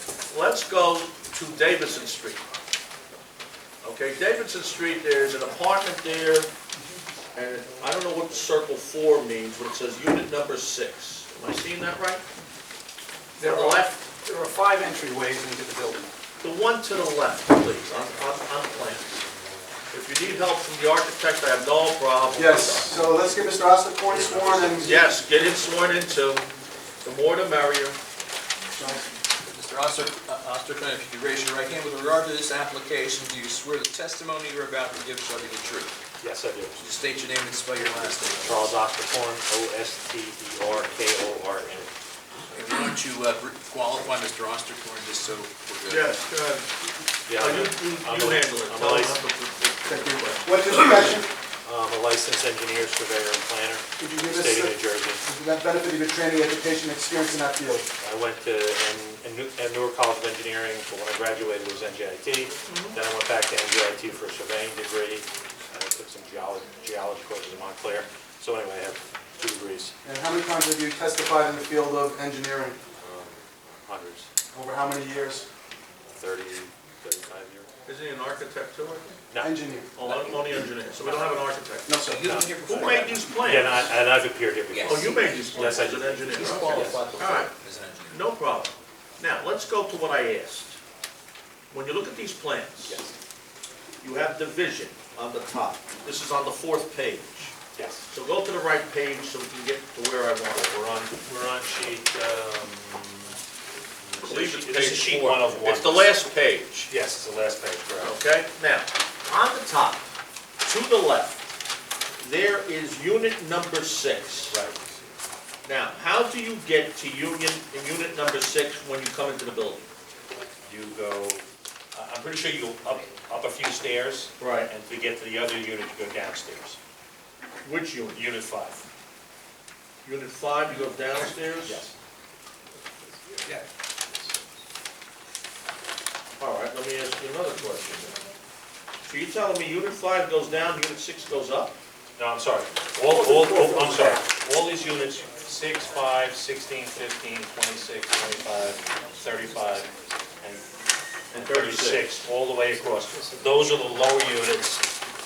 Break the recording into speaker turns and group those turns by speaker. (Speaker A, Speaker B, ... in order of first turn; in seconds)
Speaker A: 0.3-2.4, 3.8-6.5, 7.3-12.2, 13.4-13.9, 16.4-19.1, 19.9-22.9, 24.6-26.5, 27.0-28.0, 45.9-46.7, 47.3-50.5, 62.6-63.0, 77.8-79.2, 80.0-82.0, 82.6-83.8, 84.8-87.5, 88.1-90.8, 91.7-93.0, 94.0-97.5, 98.1-100.7, 104.2-106.9, 108.0-110.1, 110.6-111.4, 112.2-114.6, 115.6-119.9, 124.4-124.7, 127.6-128.2, 130.0-131.8, 136.4-138.2, 139.0-141.8, 151.3-152.1
Speaker B: 13.4-16.1
Speaker C: 22.3-25.0, 28.7-29.1, 49.9-51.3, 54.0-57.9, 70.0-72.8, 74.5-75.5, 79.4-79.9, 81.9-82.3, 143.1-144.2
Speaker D: 24.1-24.5, 36.2-36.8, 38.4-41.9, 47.3-49.2, 51.6-55.2, 58.0-69.9, 73.0-74.3, 76.1-77.7, 82.1-82.6, 83.4-87.1, 92.8-93.1, 97.7-98.0, 100.5-103.4, 104.0-106.1, 106.9-108.2, 114.5-114.8, 120.6-126.8, 128.1-128.8, 131.6-131.9, 142.2-150.7, 151.3-155.0
Speaker E: 29.4-36.0, 36.8-38.8, 42.5-46.1, 80.0-81.4, 82.0-83.9, 84.7-88.2